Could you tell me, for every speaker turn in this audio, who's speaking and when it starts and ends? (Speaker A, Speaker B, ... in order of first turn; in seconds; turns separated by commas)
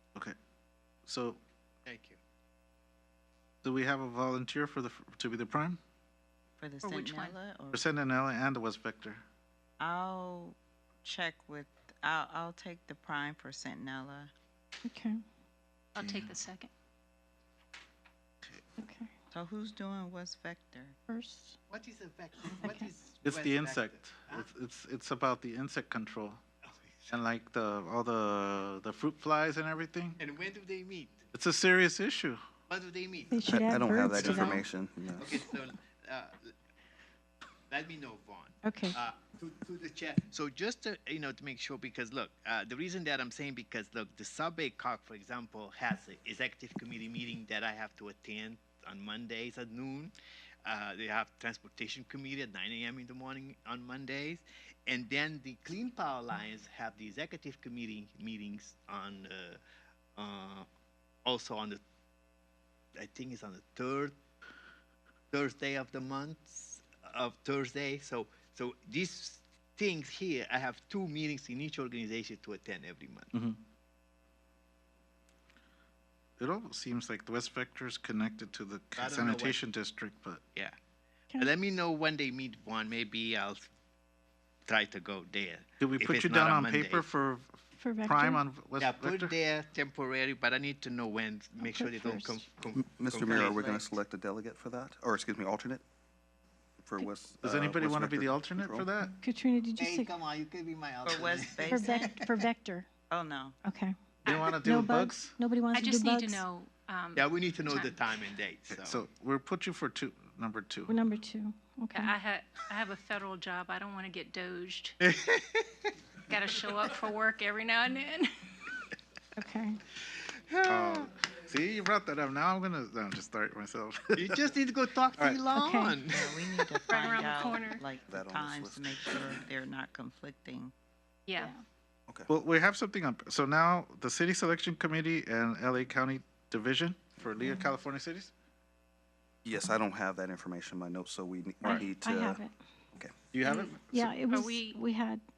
Speaker A: 1.1-1.4, Speaker B: 1.9-2.2, Speaker A: 3.6-5.8, Speaker C: 6.6-7.9, Speaker D: 6.8-7.3, Speaker A: 7.7-9.2, Speaker C: 9.8-14.3, Speaker E: 14.8-15.2, Speaker D: 15.9-16.7, Speaker A: 16.0-16.4, Speaker E: 18.8-19.1, Speaker C: 19.3-21.0, Speaker E: 21.1-21.6, Speaker B: 21.7-24.5, Speaker E: 22.6-22.9, Speaker A: 23.2-26.4, Speaker A: 27.1-30.2, Speaker B: 30.2-31.2, Speaker A: 31.3-32.4, Speaker B: 32.7-33.5, Speaker E: 33.3-34.6, Speaker F: 33.5-35.5, Speaker B: 34.1-34.6, Speaker B: 35.2-36.5, Speaker B: 37.7-50.1, Speaker E: 38.6-39.0, Speaker B: 50.6-59.6, Speaker B: 60.2-60.7, Speaker B: 61.2-61.8, Speaker B: 63.0-64.2, Speaker B: 65.3-73.3, Speaker A: 73.3-73.6, Speaker A: 76.4-80.4, Speaker B: 79.0-79.6, Speaker B: 81.4-83.7, Speaker B: 84.7-87.0, Speaker A: 85.8-89.3, Speaker E: 87.8-88.4, Speaker B: 88.8-93.9, Speaker E: 91.6-92.4, Speaker F: 92.8-95.8, Speaker F: 96.8-98.9, Speaker A: 97.4-99.2, Speaker E: 99.2-100.1, Speaker B: 99.8-102.2, Speaker C: 101.0-102.2, Speaker E: 101.7-102.9, Speaker C: 103.1-103.5, Speaker E: 103.6-106.4, Speaker D: 104.3-104.6, Speaker A: 104.3-105.4, Speaker D: 105.7-108.0, Speaker B: 107.2-109.0, Speaker A: 108.7-111.0, Speaker E: 110.9-112.2, Speaker D: 111.9-115.0, Speaker B: 115.0-115.9, Speaker D: 116.3-118.8, Speaker E: 119.4-119.8, Speaker B: 120.2-121.1, Speaker A: 120.7-124.6, Speaker B: 124.2-126.9, Speaker A: 125.2-125.4, Speaker E: 125.5-126.0, Speaker C: 126.0-130.7, Speaker D: 126.9-127.8, Speaker F: 128.1-129.1, Speaker D: 131.3-131.5, Speaker E: 131.4-131.6, Speaker A: 132.3-138.3, Speaker F: 139.4-142.4, Speaker E: 141.6-142.5, Speaker A: 143.3-144.2, Speaker E: 143.4-145.2, Speaker D: 144.3-144.8